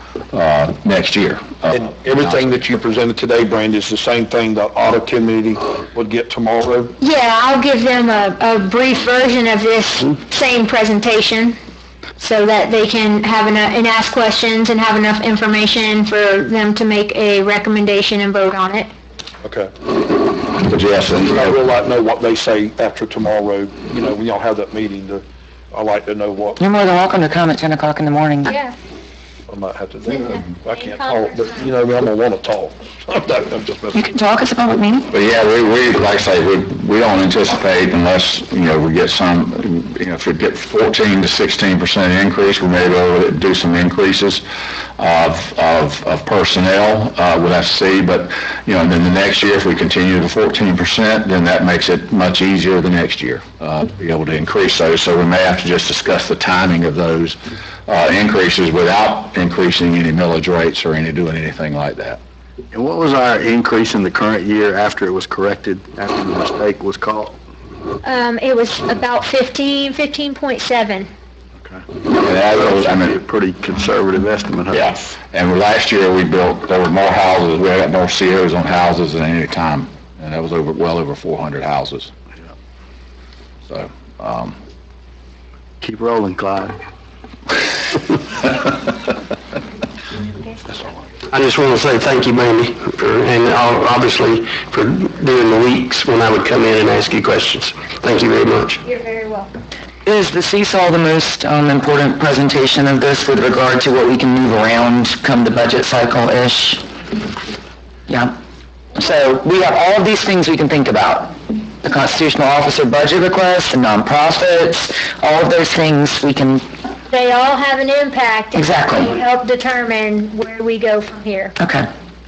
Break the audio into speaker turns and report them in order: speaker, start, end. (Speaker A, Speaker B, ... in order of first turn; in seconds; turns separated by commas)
Speaker A: 0.3-2.5, Speaker B: 1.7-7.0, Speaker C: 7.0-11.6, Speaker C: 12.2-18.9, Speaker B: 19.4-19.7, Speaker A: 20.6-21.5, Speaker B: 21.0-26.6, Speaker D: 26.6-28.6, Speaker C: 28.4-28.8, Speaker B: 29.5-34.0, Speaker C: 30.1-31.6, Speaker D: 33.9-35.1, Speaker A: 35.1-44.4, Speaker A: 45.0-62.2, Speaker E: 62.7-67.4, Speaker C: 68.0-71.1, Speaker A: 72.2-73.2, Speaker E: 72.5-75.1, Speaker A: 74.7-82.1, Speaker A: 83.7-84.6, Speaker E: 85.8-86.8, Speaker F: 91.3-98.8, Speaker C: 98.8-99.5, Speaker D: 100.1-106.8, Speaker D: 108.1-108.4, Speaker D: 109.0-116.6, Speaker C: 117.1-121.5, Speaker D: 118.5-119.2, Speaker D: 121.6-121.9